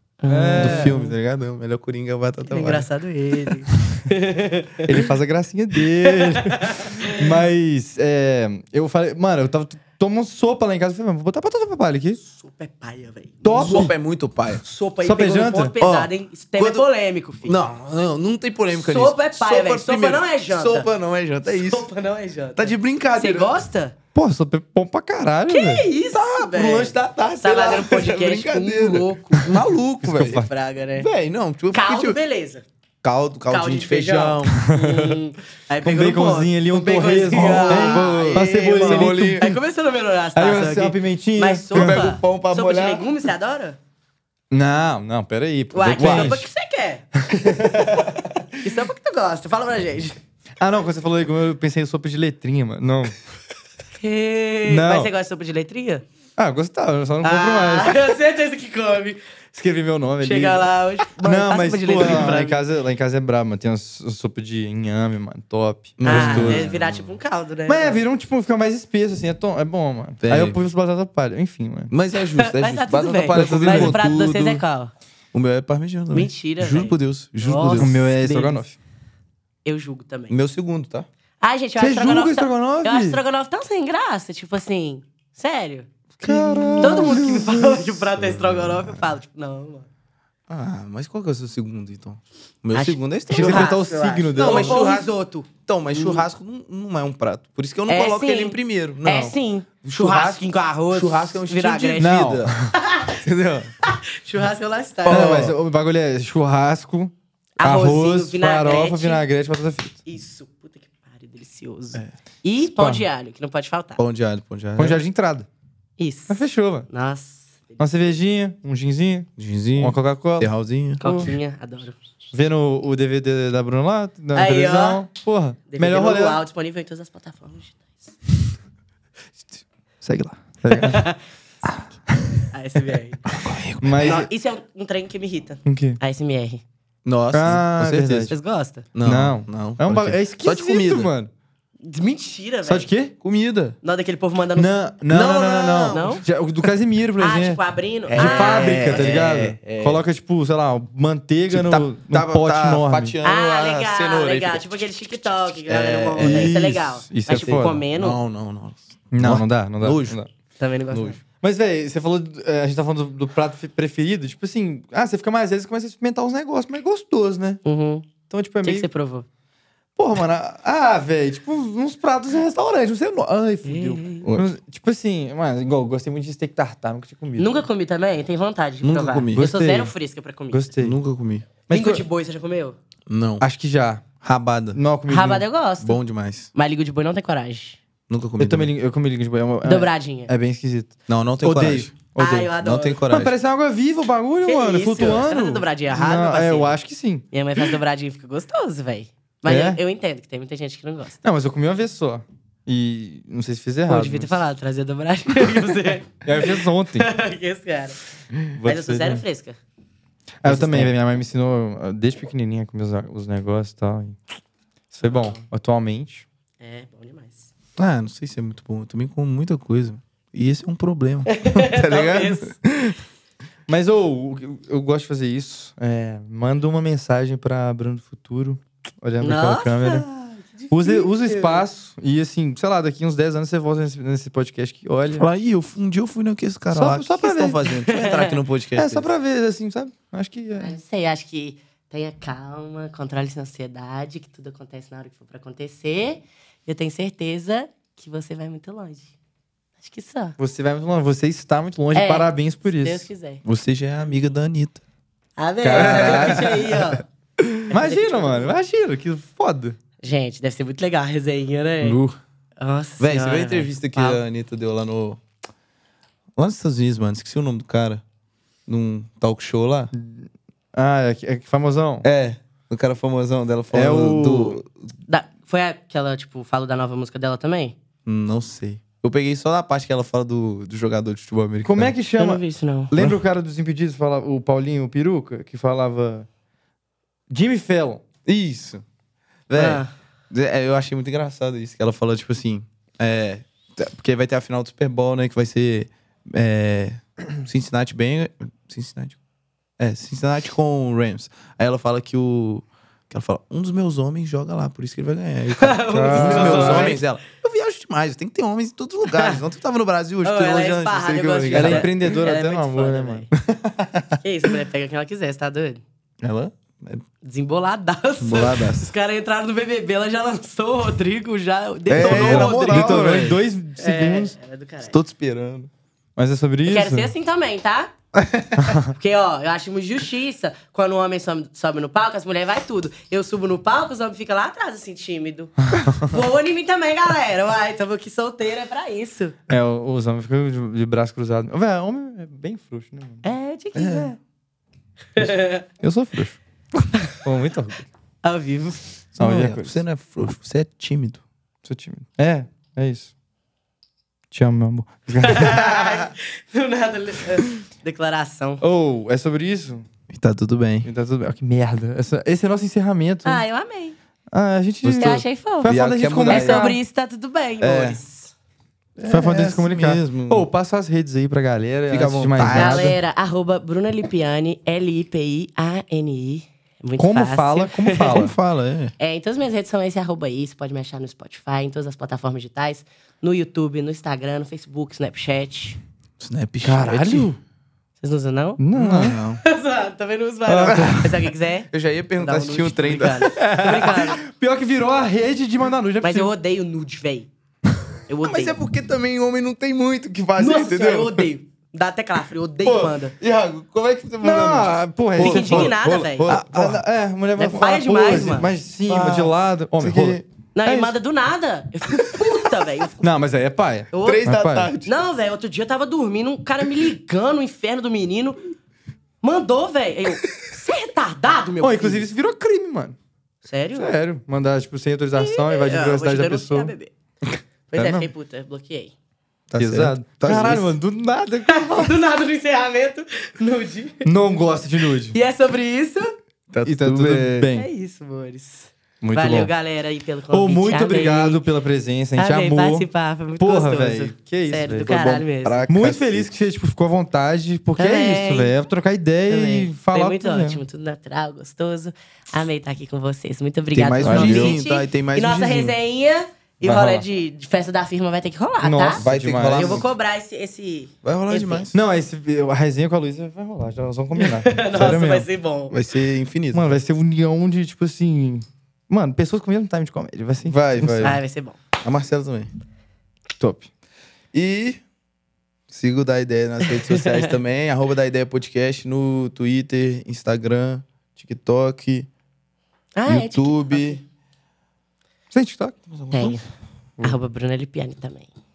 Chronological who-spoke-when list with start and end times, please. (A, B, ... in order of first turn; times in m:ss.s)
0:00.2-0:01.1 A
0:00.3-0:01.0 B
0:00.6-0:02.9 C
0:02.5-0:05.0 A
0:04.8-0:12.2 B
0:06.0-0:07.2 A
0:12.2-0:13.9 A
0:13.4-0:13.9 B
0:13.6-0:14.6 C
0:14.6-0:17.6 A
0:15.0-0:15.7 B
0:15.8-0:16.8 C
0:17.4-0:21.9 C
0:18.8-0:20.9 A
0:21.5-0:24.0 A
0:22.6-0:23.5 C
0:24.2-0:25.9 B
0:25.5-0:29.5 A
0:26.1-0:30.4 C
0:30.0-0:30.5 B
0:30.3-0:31.1 A
0:31.0-0:32.2 C
0:31.7-0:32.6 A
0:33.0-0:34.6 C
0:33.5-0:43.8 A
0:34.5-0:35.2 B
0:35.8-0:39.5 B
0:37.3-0:39.6 C
0:40.4-0:42.0 B
0:41.7-0:43.1 C
0:44.5-0:46.5 B
0:45.7-0:47.1 A
0:46.0-0:46.3 C
0:47.2-0:48.2 B
0:48.0-0:50.2 A
0:50.6-0:53.2 B
0:54.0-0:56.0 A
0:54.7-0:55.1 B
0:56.4-0:58.2 B
0:57.2-0:59.2 A
0:59.5-1:06.7 B
1:00.2-1:02.6 A
1:06.0-1:07.2 C
1:06.0-1:08.0 A
1:07.7-1:11.9 B
1:10.2-1:10.6 C
1:11.9-1:14.6 C
1:12.4-1:14.9 A
1:13.3-1:14.0 B
1:15.3-1:18.0 C
1:16.1-1:18.6 A
1:17.8-1:18.8 B
1:19.6-1:20.4 A
1:20.3-1:21.1 C
1:21.4-1:25.9 A
1:21.8-1:23.2 B
1:26.2-1:28.0 B
1:26.2-1:29.0 C
1:26.8-1:29.9 A
1:30.5-1:33.8 C
1:32.7-1:36.2 A
1:33.3-1:34.8 B
1:34.3-1:35.1 C
1:35.7-1:39.3 C
1:37.9-1:42.2 A
1:39.8-1:42.6 C
1:42.0-1:42.7 B
1:42.8-1:43.2 A
1:43.2-1:43.7 C
1:43.8-1:45.5 A
1:45.0-1:45.6 C
1:45.1-1:50.0 B
1:47.6-1:49.2 A
1:50.0-1:54.0 A
1:52.6-1:53.0 B
1:54.0-1:55.0 C
1:54.8-1:55.5 B
1:56.0-1:57.8 A
1:56.3-1:56.9 B
1:57.8-2:01.3 B
1:59.4-2:01.0 C
2:01.0-2:02.0 A
2:02.3-2:06.4 B
2:04.3-2:05.0 A
2:05.7-2:08.0 A
2:10.0-2:11.1 B
2:10.7-2:11.2 A
2:11.6-2:12.5 B
2:12.5-2:13.2 A
2:13.3-2:14.2 C
2:13.8-2:14.3 B
2:14.0-2:16.6 A
2:15.6-2:16.0 B
2:17.0-2:18.3 C
2:17.3-2:18.3 B
2:18.3-2:18.9 A
2:18.9-2:21.1 C
2:19.0-2:21.3 B
2:21.8-2:22.9 A
2:22.7-2:23.1 B
2:23.2-2:23.8 C
2:23.8-2:24.7 A
2:24.6-2:27.6 B
2:25.1-2:26.2 C
2:25.9-2:26.2 A
2:27.2-2:29.4 A
2:28.1-2:30.0 C
2:28.1-2:33.1 B
2:31.5-2:34.7 C
2:33.2-2:38.2 A
2:35.7-2:36.7 C
2:36.2-2:37.8 B
2:37.3-2:40.2 C
2:39.1-2:40.3 B
2:40.6-2:41.2 A
2:40.9-2:41.2 C
2:41.4-2:47.6 B
2:47.6-2:48.1 A
2:48.3-2:48.9 B
2:48.6-2:49.3 A
2:50.0-2:57.7 B
2:53.6-2:54.3 A
2:57.4-3:00.7 A
2:58.8-2:59.5 C
2:59.4-2:59.9 B
3:00.5-3:01.0 B
3:00.8-3:01.5 C
3:01.7-3:02.0 B
3:01.7-3:02.8 A
3:03.1-3:03.4 C
3:03.4-3:04.0 B
3:04.2-3:04.8 C
3:04.7-3:05.4 B
3:05.1-3:06.0 A
3:05.8-3:06.5 C
3:06.5-3:07.8 A
3:08.1-3:08.7 C
3:08.4-3:12.5 B
3:09.6-3:10.3 A
3:11.1-3:11.9 C
3:12.2-3:13.0 A
3:12.6-3:13.3 C
3:13.1-3:17.7 B
3:14.4-3:16.8 A
3:17.3-3:21.2 A
3:19.5-3:19.8 B
3:21.2-3:24.4 B
3:23.9-3:28.0 A
3:26.2-3:27.1 B
3:28.5-3:29.2 B
3:28.6-3:29.6 A
3:30.4-3:34.2 B
3:30.5-3:30.9 A
3:30.5-3:30.9 C
3:34.9-3:36.2 B
3:35.0-3:35.4 A
3:36.6-3:37.5 A
3:37.8-3:43.0 C
3:41.3-3:42.6 A
3:43.7-3:50.1 B
3:49.2-3:51.6 A
3:50.7-3:55.3 B
3:55.2-3:59.1 C
3:56.7-3:57.6 B
3:57.8-3:58.4 A
3:58.8-4:00.8 B
4:00.6-4:09.1 A
4:09.8-4:10.4 A
4:10.4-4:13.1 B
4:11.9-4:13.4 A
4:13.4-4:14.8 C
4:15.4-4:17.0 A
4:15.6-4:16.8 B
4:15.7-4:16.7 C
4:17.7-4:18.5 A
4:17.7-4:19.8 B
4:20.0-4:22.0 A
4:21.8-4:22.2 C
4:22.6-4:24.2 A
4:23.0-4:25.2 C
4:26.4-4:28.0 C
4:28.7-4:29.9 C
4:30.0-4:32.1 B
4:32.0-4:34.7 C
4:33.7-4:34.6 B
4:35.1-4:37.8 A
4:38.0-4:41.9 C
4:41.6-4:46.3 B
4:42.2-4:42.9 A
4:42.9-4:43.2 C
4:47.3-4:48.0 B
4:48.2-4:48.8 C
4:49.5-4:59.2 C
4:49.6-4:49.9 A
4:59.8-5:12.1 C
5:05.6-5:07.0 A
5:05.9-5:07.0 B
5:09.1-5:09.4 A
5:10.2-5:13.3 A
5:11.5-5:13.3 B
5:13.4-5:14.2 C
5:14.2-5:15.8 A
5:16.2-5:17.0 C
5:17.2-5:23.2 A
5:18.2-5:18.9 C
5:21.9-5:23.4 C
5:22.0-5:24.4 B
5:23.8-5:25.0 A
5:24.8-5:25.7 C
5:26.2-5:27.1 B
5:26.7-5:27.9 A
5:28.1-5:28.8 C
5:28.9-5:39.4 A
5:35.7-5:36.2 B
5:39.5-5:43.2 B
5:43.2-5:44.2 A
5:43.8-5:44.1 C
5:45.2-5:45.6 A
5:45.2-5:46.4 B
5:47.2-5:47.9 B
5:48.2-5:48.8 A
5:49.2-5:51.2 C
5:49.2-5:49.8 B
5:51.6-5:53.1 B
5:54.3-5:55.8 B
5:55.2-5:58.6 A
5:58.6-5:59.9 B
6:00.1-6:00.9 C
6:00.8-6:03.4 B
6:03.2-6:04.0 A
6:04.3-6:06.8 B
6:04.8-6:06.8 C
6:05.0-6:05.8 A
6:06.3-6:08.3 A
6:07.6-6:08.0 C
6:09.0-6:10.5 C
6:09.1-6:13.0 B
6:11.9-6:12.8 C
6:12.5-6:18.3 A
6:17.0-6:18.4 B
6:18.1-6:18.9 C
6:19.0-6:25.8 A
6:26.2-6:27.3 C
6:26.6-6:27.4 B
6:28.0-6:28.6 A
6:28.6-6:29.2 B
6:28.7-6:29.4 C
6:29.4-6:34.2 A
6:30.5-6:31.3 B
6:31.7-6:33.4 C
6:33.2-6:36.3 B
6:36.0-6:37.3 A
6:38.1-6:38.6 A
6:38.2-6:41.3 C
6:40.4-6:43.1 A
6:42.7-6:42.9 B
6:43.2-6:46.8 C
6:44.2-6:51.0 B
6:45.2-6:46.3 A
6:47.4-6:48.5 A
6:48.9-6:50.2 C
6:50.5-6:53.1 A
6:53.0-6:54.7 B
6:53.9-6:58.4 A
6:54.0-6:55.0 C
6:59.2-7:02.1 A
7:01.6-7:03.0 B
7:03.4-7:03.9 A
7:03.8-7:06.7 B
7:05.2-7:06.9 A
7:07.7-7:08.9 A
7:07.8-7:08.1 B
7:09.5-7:10.7 C
7:09.6-7:12.0 B
7:10.3-7:10.7 A
7:11.5-7:14.1 A
7:14.0-7:15.2 B
7:15.1-7:16.2 A
7:16.5-7:17.5 C
7:16.6-7:17.7 B
7:17.5-7:21.4 A
7:19.0-7:19.5 B
7:20.3-7:24.9 B
7:22.2-7:25.6 A
7:24.8-7:26.3 C
7:25.7-7:30.6 B
7:27.8-7:28.5 A
7:29.3-7:41.7 A
7:33.7-7:35.8 C
7:34.0-7:34.6 B
7:36.6-7:37.0 B
7:38.6-7:39.8 B
7:39.0-7:39.9 C
7:41.0-7:41.8 C
7:41.7-7:45.3 B
7:44.2-7:45.8 A
7:45.7-7:46.8 C
7:46.5-7:51.2 B
7:50.4-7:51.2 C
7:51.0-7:51.6 A
7:51.8-7:52.5 C
7:53.4-7:53.7 B
7:54.3-7:54.8 C
7:55.7-8:02.1 C
7:56.6-7:57.3 A
8:03.0-8:04.0 A
8:03.1-8:04.0 C
8:05.3-8:05.8 B
8:05.9-8:06.4 C
8:06.1-8:06.4 A
8:07.0-8:08.3 A